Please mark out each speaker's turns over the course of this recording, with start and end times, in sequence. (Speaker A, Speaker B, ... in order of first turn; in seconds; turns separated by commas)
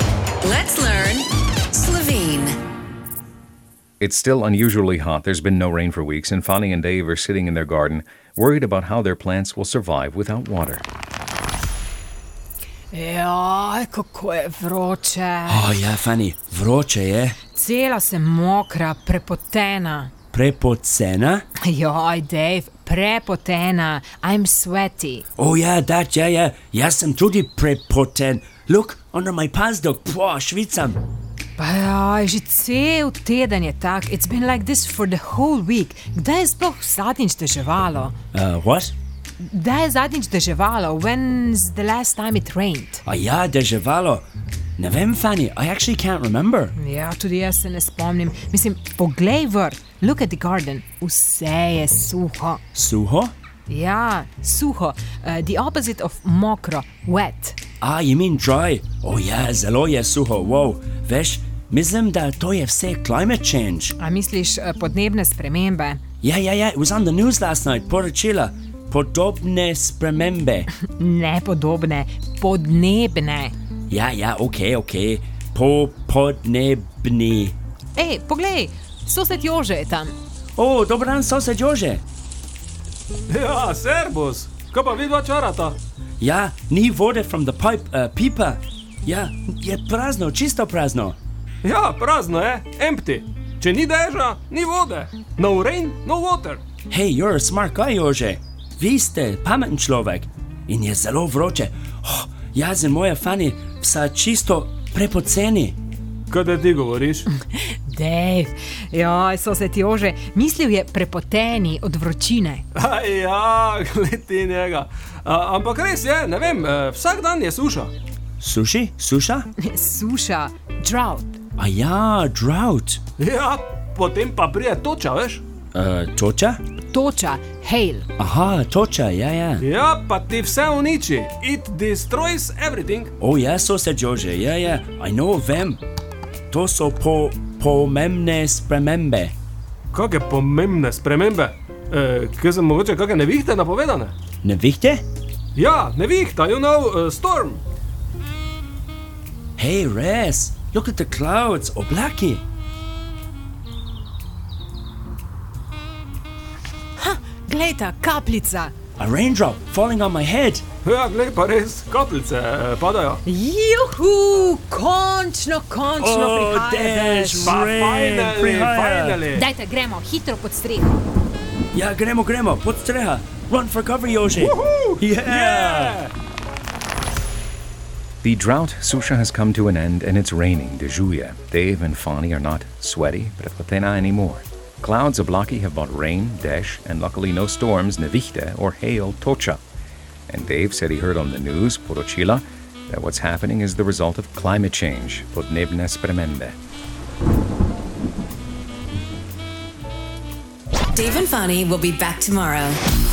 Speaker A: 0.4-2.6, Speaker B: 4.0-10.8, Speaker C: 12.9-15.8, Speaker D: 15.4-17.4, Speaker C: 17.5-20.1, Speaker D: 20.3-21.4, Speaker C: 21.6-25.2, Speaker D: 25.4-31.0, Speaker C: 31.6-38.1, Speaker D: 38.3-38.9, Speaker C: 39.4-43.0, Speaker D: 43.0-44.2, Speaker D: 44.8-46.7, Speaker C: 46.8-52.6, Speaker D: 52.7-53.3, Speaker C: 53.7-57.6, Speaker D: 57.8-64.0, Speaker C: 64.0-66.0, Speaker D: 66.2-70.7, Speaker C: 70.8-73.5, Speaker D: 73.9-77.5, Speaker C: 77.9-80.1, Speaker D: 80.5-82.0, Speaker E: 83.3-85.8, Speaker D: 86.2-91.2, Speaker E: 91.6-96.6, Speaker D: 96.9-105.8, Speaker E: 106.3-107.3, Speaker C: 107.3-112.7, Speaker E: 112.7-117.9, Speaker D: 118.4-119.5, Speaker C: 119.6-121.4, Speaker D: 121.6-123.0, Speaker E: 123.2-125.4, Speaker D: 125.7-126.6, Speaker C: 126.9-128.1, Speaker D: 128.2-129.6, Speaker E: 129.6-133.1, Speaker D: 133.2-135.8, Speaker D: 136.5-139.3, Speaker E: 139.9-144.1, Speaker D: 144.4-145.0, Speaker E: 145.5-147.6, Speaker D: 149.6-152.4, Speaker C: 157.0-158.7, Speaker D: 159.0-160.6, Speaker E: 160.8-163.2, Speaker C: 163.2-167.5, Speaker D: 166.0-169.2, Speaker E: 167.4-169.4, Speaker C: 169.3-171.0, Speaker D: 171.7-176.0, Speaker E: 174.4-176.1, Speaker B: 178.2-189.6, Speaker B: 190.3-196.6, Speaker A: 200.9-202.8